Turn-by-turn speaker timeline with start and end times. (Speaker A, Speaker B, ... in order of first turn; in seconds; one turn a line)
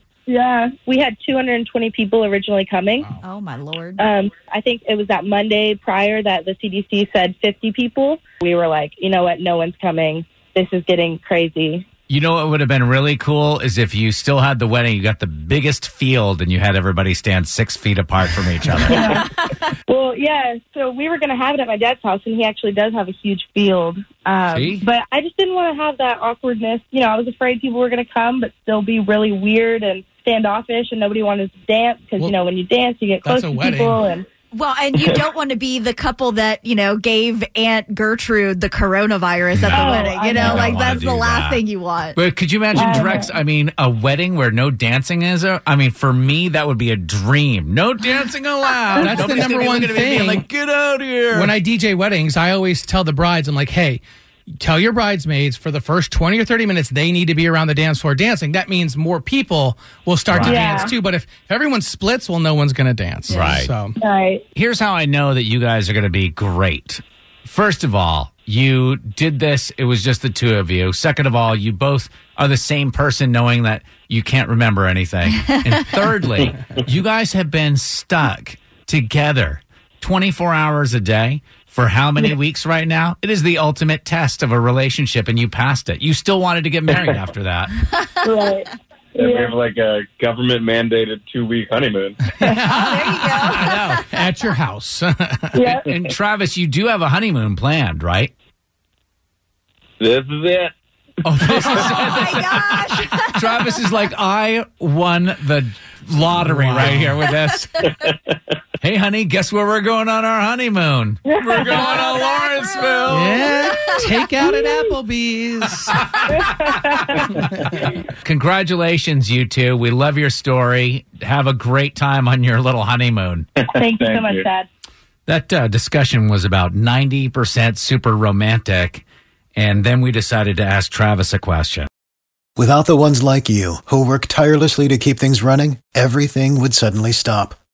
Speaker A: 0.3-3.1
Speaker B: 3.2-4.0
Speaker A: 4.0-11.9
Speaker C: 12.1-19.2
Speaker A: 18.9-19.3
Speaker A: 19.9-34.2
Speaker C: 24.5-24.9
Speaker D: 33.2-34.0
Speaker B: 34.5-42.2
Speaker E: 35.0-35.3
Speaker C: 39.5-41.6
Speaker A: 39.7-40.8
Speaker C: 42.1-51.5
Speaker A: 42.8-43.3
Speaker D: 48.9-50.5
Speaker D: 51.3-54.0
Speaker D: 54.6-64.0
Speaker C: 60.3-60.8
Speaker A: 60.4-60.9
Speaker C: 63.3-63.7
Speaker A: 64.0-64.4
Speaker C: 64.5-87.8
Speaker E: 86.9-87.2
Speaker A: 88.2-89.6
Speaker E: 89.2-92.5
Speaker D: 92.2-95.6
Speaker B: 92.7-93.7
Speaker C: 93.6-94.0
Speaker A: 95.5-95.9
Speaker C: 95.7-98.3
Speaker E: 100.0-100.7
Speaker C: 101.2-107.8
Speaker E: 101.7-102.4
Speaker B: 101.9-103.3
Speaker D: 106.3-107.1
Speaker E: 107.9-108.1
Speaker C: 108.8-113.5
Speaker A: 111.3-111.6
Speaker D: 113.0-116.0
Speaker A: 114.4-114.7
Speaker C: 115.8-116.4
Speaker A: 116.3-117.1
Speaker C: 118.2-123.5
Speaker E: 123.6-124.5
Speaker A: 123.7-124.7
Speaker C: 125.3-129.0
Speaker C: 129.6-131.9
Speaker F: 132.6-137.6